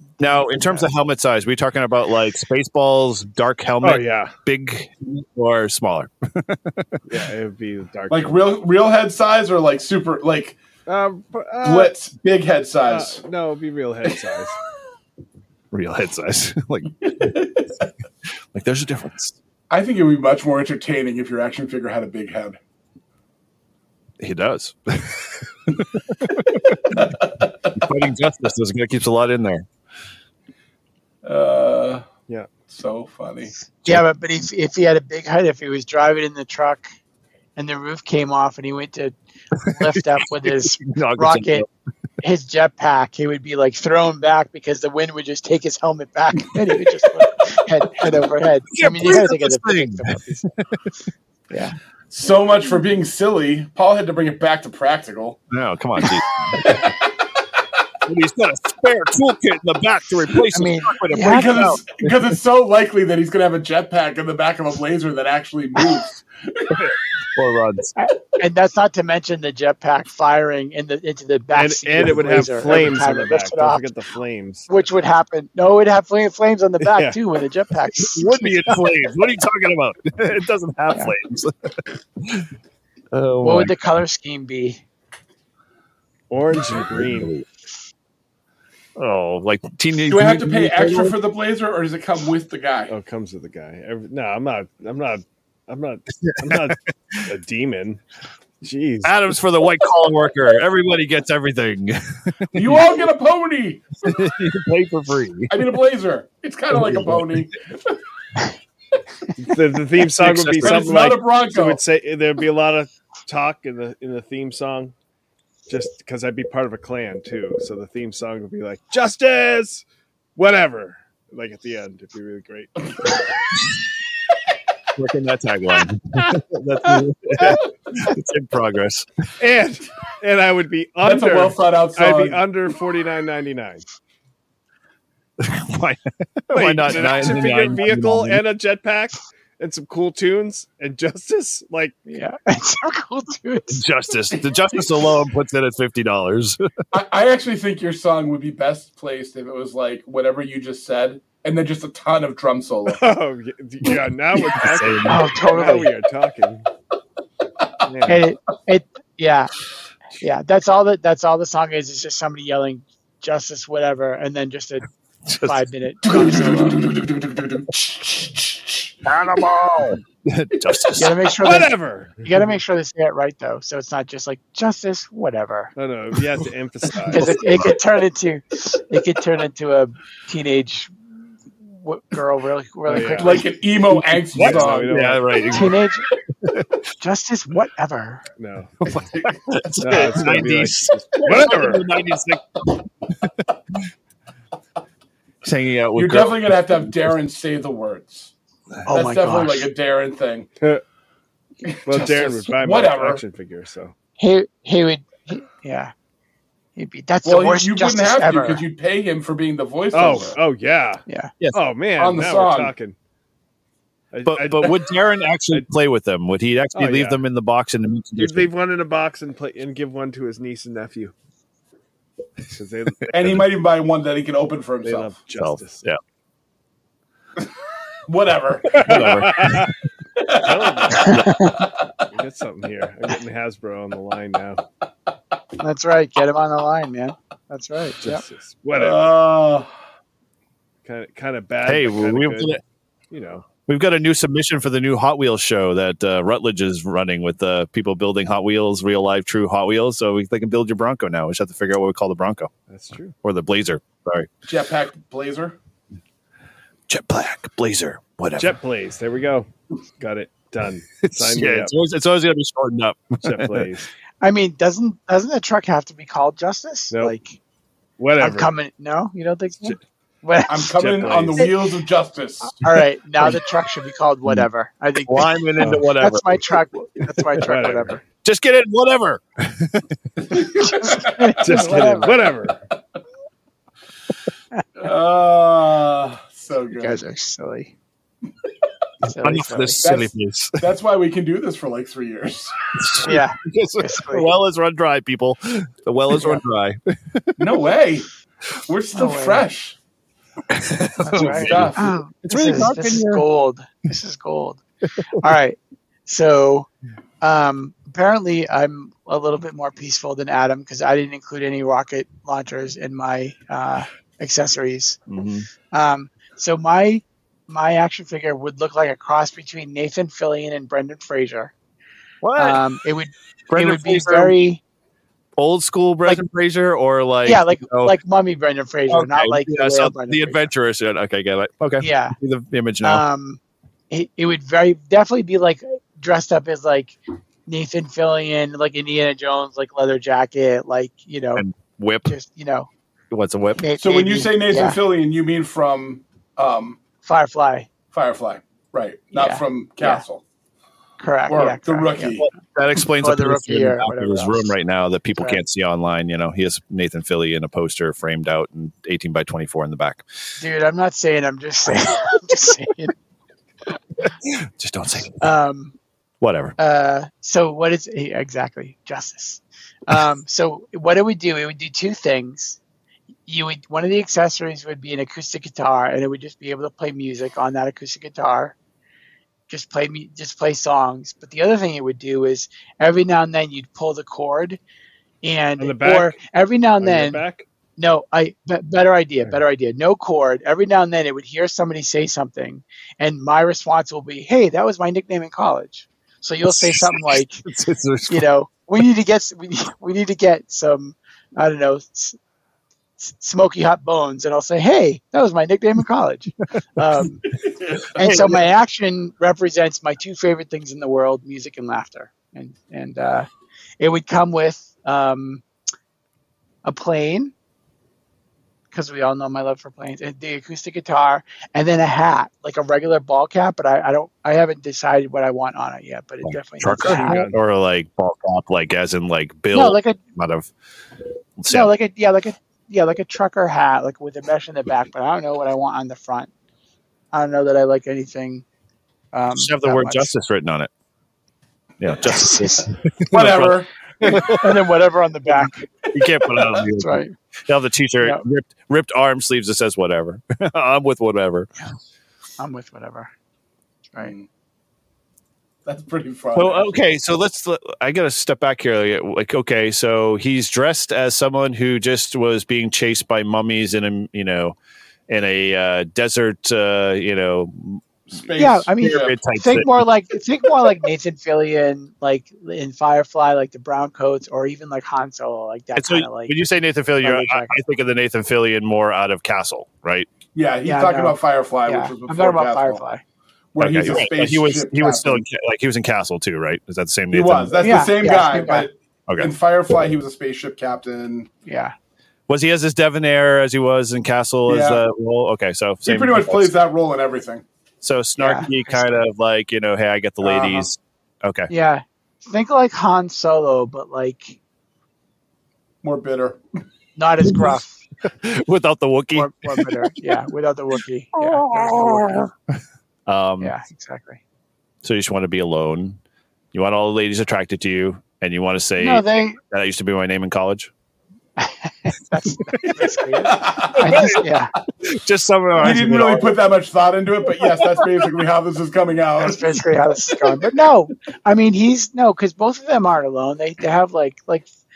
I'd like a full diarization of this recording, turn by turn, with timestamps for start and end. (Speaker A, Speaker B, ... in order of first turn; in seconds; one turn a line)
Speaker A: 0.2-7.0
Speaker B: 0.5-0.8
Speaker C: 3.8-4.3
Speaker C: 7.1-8.4
Speaker D: 8.1-10.6
Speaker C: 10.9-11.9
Speaker D: 11.6-13.2
Speaker C: 12.9-14.6
Speaker A: 15.7-17.3
Speaker D: 17.0-17.6
Speaker A: 18.5-19.4
Speaker D: 19.7-22.6
Speaker A: 24.2-27.0
Speaker D: 26.9-27.7
Speaker A: 27.7-29.6
Speaker D: 31.2-32.0
Speaker D: 32.7-33.5
Speaker B: 33.8-36.9
Speaker B: 37.5-41.6
Speaker A: 39.7-41.7
Speaker B: 42.2-50.5
Speaker A: 48.7-50.9
Speaker B: 51.5-51.8
Speaker D: 52.1-55.4
Speaker A: 55.5-56.8
Speaker D: 56.5-57.0
Speaker A: 58.0-62.1
Speaker B: 60.5-61.7
Speaker D: 61.3-66.9
Speaker A: 66.7-67.9
Speaker B: 68.0-73.8
Speaker C: 71.5-74.7
Speaker B: 74.7-78.4
Speaker A: 78.0-82.5
Speaker A: 83.1-83.7
Speaker B: 83.4-84.8
Speaker C: 86.3-87.3
Speaker A: 86.6-87.5
Speaker A: 89.0-91.2
Speaker D: 90.1-92.9
Speaker C: 92.9-98.0
Speaker A: 96.2-96.6
Speaker C: 98.6-99.1
Speaker A: 99.0-102.8
Speaker D: 102.5-103.8
Speaker A: 104.0-105.6
Speaker D: 105.5-107.9
Speaker A: 106.7-107.5
Speaker C: 109.4-114.9
Speaker A: 110.2-110.9
Speaker D: 110.6-111.8
Speaker C: 115.7-119.8
Speaker C: 120.3-123.2
Speaker A: 125.0-129.1
Speaker C: 129.4-133.8
Speaker D: 131.0-132.4
Speaker A: 135.4-138.4
Speaker C: 136.5-142.0
Speaker B: 142.1-143.8
Speaker A: 143.7-146.6
Speaker D: 146.9-153.0
Speaker C: 152.9-156.7
Speaker A: 154.5-155.4
Speaker B: 155.1-155.9
Speaker C: 157.9-158.2
Speaker B: 158.1-159.5
Speaker B: 160.2-164.8
Speaker A: 165.3-165.6
Speaker B: 165.4-166.8
Speaker D: 166.0-168.9
Speaker A: 169.0-171.3
Speaker B: 170.9-175.7
Speaker C: 171.4-172.4
Speaker C: 175.8-177.6
Speaker A: 177.0-177.7
Speaker B: 177.1-180.9
Speaker B: 181.6-183.4
Speaker C: 182.9-185.7
Speaker D: 183.2-184.9
Speaker A: 184.3-185.8
Speaker B: 185.5-186.0
Speaker A: 186.4-186.8
Speaker B: 187.0-188.2
Speaker C: 188.4-189.0
Speaker A: 188.8-193.3
Speaker C: 189.8-191.9
Speaker A: 195.4-196.9
Speaker D: 195.9-198.3
Speaker B: 198.8-199.7
Speaker D: 198.9-200.5
Speaker D: 201.6-203.2
Speaker C: 201.8-203.9
Speaker B: 204.2-205.9
Speaker B: 206.8-208.6
Speaker D: 207.2-210.3
Speaker C: 209.9-212.9
Speaker D: 212.0-212.7
Speaker C: 214.1-214.9
Speaker A: 214.2-218.5
Speaker C: 216.7-217.2
Speaker C: 218.2-221.1
Speaker C: 222.5-223.3
Speaker D: 223.1-225.2
Speaker C: 224.8-225.8
Speaker A: 225.4-226.0
Speaker D: 228.1-229.2
Speaker C: 228.7-229.7
Speaker A: 228.8-229.7
Speaker D: 230.2-230.9
Speaker C: 230.3-231.3
Speaker B: 231.0-231.5
Speaker A: 231.0-231.5
Speaker C: 232.1-234.6
Speaker B: 235.6-238.2
Speaker C: 238.0-239.1
Speaker D: 238.7-239.7
Speaker C: 240.8-242.6
Speaker A: 241.7-242.6
Speaker C: 243.1-243.4
Speaker A: 243.7-252.5
Speaker C: 252.7-253.1
Speaker A: 253.2-254.3
Speaker D: 254.4-255.6
Speaker A: 256.9-258.6
Speaker C: 258.4-259.5
Speaker C: 260.0-261.7
Speaker A: 261.0-263.7
Speaker C: 263.2-263.9
Speaker B: 264.2-267.4
Speaker C: 268.0-268.5
Speaker B: 268.2-270.8
Speaker D: 270.5-272.7
Speaker C: 270.8-271.6
Speaker B: 272.4-278.0
Speaker A: 275.1-276.5
Speaker C: 275.6-275.9
Speaker C: 277.4-278.0
Speaker A: 278.2-280.4
Speaker D: 280.3-281.3
Speaker B: 280.6-282.2
Speaker C: 281.4-282.6
Speaker D: 284.8-287.0
Speaker B: 286.7-287.7
Speaker B: 289.0-289.8
Speaker A: 289.2-290.6
Speaker D: 289.8-292.5
Speaker A: 292.8-297.4
Speaker B: 293.0-294.3
Speaker B: 296.1-296.4
Speaker D: 297.4-298.1
Speaker D: 298.6-299.8
Speaker B: 298.9-299.4
Speaker A: 300.5-303.2
Speaker B: 301.0-304.6
Speaker D: 301.1-302.0
Speaker B: 305.2-306.7
Speaker B: 307.2-315.0
Speaker A: 315.1-315.5
Speaker B: 315.7-321.5
Speaker A: 322.2-322.6
Speaker B: 322.4-324.6
Speaker A: 323.5-324.4
Speaker A: 325.4-328.0
Speaker B: 327.2-330.5
Speaker A: 328.9-333.0
Speaker B: 331.8-332.1
Speaker B: 332.8-341.4
Speaker A: 341.4-342.1
Speaker B: 342.1-342.7
Speaker A: 343.1-343.6
Speaker B: 343.6-344.8
Speaker D: 343.8-346.8
Speaker B: 347.0-347.7
Speaker D: 347.9-350.2
Speaker B: 349.1-350.0
Speaker B: 351.0-352.2
Speaker D: 351.3-352.3
Speaker A: 352.2-360.0
Speaker B: 353.0-354.5
Speaker B: 360.4-362.9
Speaker A: 364.2-365.2
Speaker B: 365.2-365.7
Speaker A: 366.2-366.5
Speaker B: 366.6-372.6
Speaker B: 373.3-378.5
Speaker B: 379.5-384.6
Speaker B: 385.2-387.2
Speaker C: 385.6-386.2
Speaker C: 386.8-387.4
Speaker B: 387.8-397.4
Speaker A: 396.5-398.3
Speaker B: 398.1-402.2
Speaker B: 403.0-407.2
Speaker D: 407.6-408.0
Speaker B: 407.9-413.3
Speaker A: 408.0-408.4
Speaker B: 413.8-415.4
Speaker B: 416.6-417.3
Speaker B: 418.7-427.3
Speaker A: 426.2-430.5
Speaker C: 426.6-427.4
Speaker B: 429.5-430.0
Speaker A: 431.4-431.7
Speaker B: 431.5-436.3
Speaker B: 437.1-438.4
Speaker B: 439.1-440.1
Speaker A: 439.3-440.7
Speaker A: 441.8-444.6
Speaker B: 442.0-442.7
Speaker D: 443.1-444.3
Speaker B: 444.1-445.7
Speaker A: 445.9-451.5
Speaker B: 446.8-447.1
Speaker B: 452.4-453.1
Speaker D: 454.0-454.3
Speaker D: 455.6-456.8
Speaker A: 456.3-464.6
Speaker A: 465.1-467.8
Speaker D: 468.1-469.2
Speaker B: 468.4-476.4
Speaker A: 468.8-469.8
Speaker A: 475.8-480.1
Speaker B: 477.0-477.6
Speaker D: 480.3-482.8
Speaker B: 480.6-483.0
Speaker D: 483.5-485.2
Speaker A: 483.6-487.8
Speaker D: 487.1-491.3
Speaker B: 487.6-488.7
Speaker B: 491.4-491.7
Speaker A: 492.3-496.5
Speaker D: 494.5-494.8
Speaker D: 495.8-497.4
Speaker A: 497.8-501.5
Speaker B: 498.2-498.9
Speaker B: 500.2-500.6
Speaker B: 501.5-504.4
Speaker D: 505.8-506.4
Speaker B: 506.9-507.8
Speaker A: 507.2-509.9
Speaker B: 509.1-512.2
Speaker A: 511.1-512.3
Speaker A: 513.0-513.5
Speaker B: 513.4-514.2
Speaker A: 514.8-516.0
Speaker A: 516.5-520.7
Speaker B: 518.8-519.4
Speaker B: 521.4-524.5
Speaker D: 523.2-524.0
Speaker A: 523.7-524.3
Speaker A: 524.8-526.4
Speaker D: 525.5-529.6
Speaker A: 527.4-527.9
Speaker B: 529.2-534.5